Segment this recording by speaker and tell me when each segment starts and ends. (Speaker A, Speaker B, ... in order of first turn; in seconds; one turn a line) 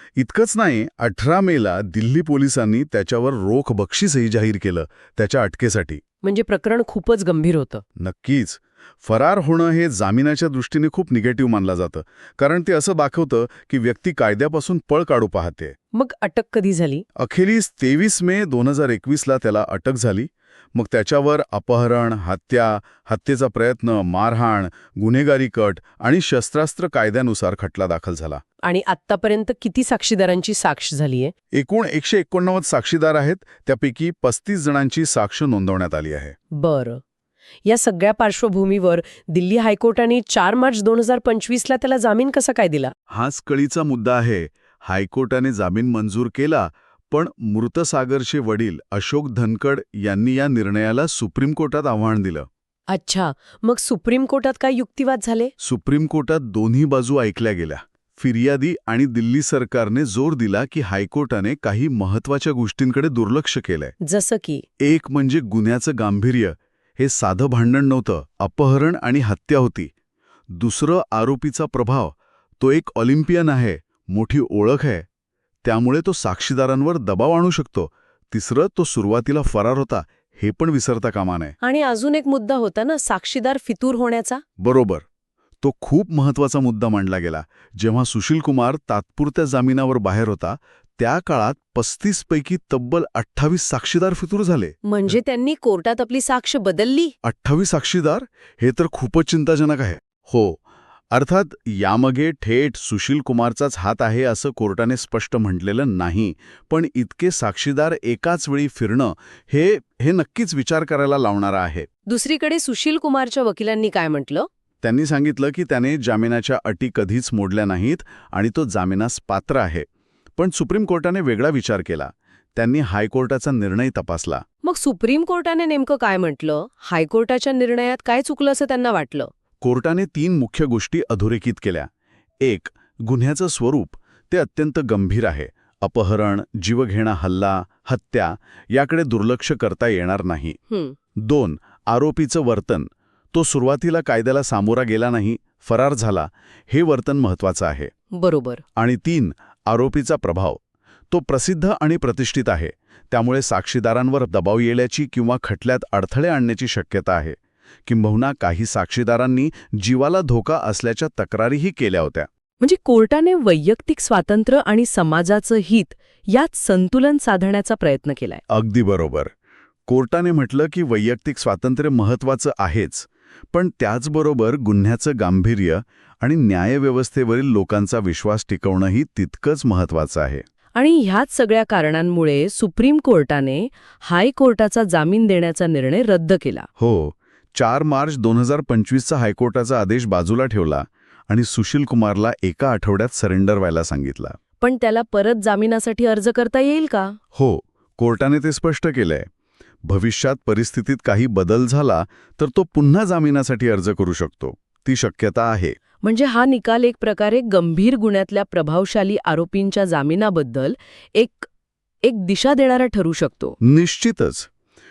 Speaker A: 0.2-6.0
Speaker B: 6.2-7.8
Speaker A: 8.0-15.8
Speaker B: 15.9-17.1
Speaker A: 17.2-28.4
Speaker B: 28.6-31.3
Speaker A: 31.5-36.4
Speaker B: 36.5-37.0
Speaker B: 37.6-42.9
Speaker A: 43.1-52.5
Speaker B: 52.9-55.5
Speaker A: 55.6-63.9
Speaker B: 64.0-64.6
Speaker A: 64.8-69.9
Speaker A: 70.5-75.1
Speaker A: 75.6-81.5
Speaker B: 81.6-84.4
Speaker A: 84.6-85.0
Speaker A: 85.6-95.2
Speaker B: 94.9-97.1
Speaker A: 97.2-100.6
Speaker A: 101.1-111.9
Speaker B: 112.1-114.5
Speaker A: 114.8-124.4
Speaker B: 124.6-129.3
Speaker A: 129.6-131.9
Speaker A: 132.4-140.6
Speaker B: 140.7-140.9
Speaker A: 141.2-147.9
Speaker B: 148.1-148.6
Speaker A: 148.8-150.6
Speaker A: 151.1-162.3
Speaker B: 162.6-168.4
Speaker A: 168.5-169.3
Speaker A: 169.9-180.4
Speaker B: 180.8-186.7
Speaker A: 186.8-194.4
Speaker B: 194.6-197.2
Speaker A: 197.3-199.3
Speaker A: 199.8-205.8
Speaker B: 206.0-211.5
Speaker B: 212.1-213.6
Speaker A: 213.6-214.5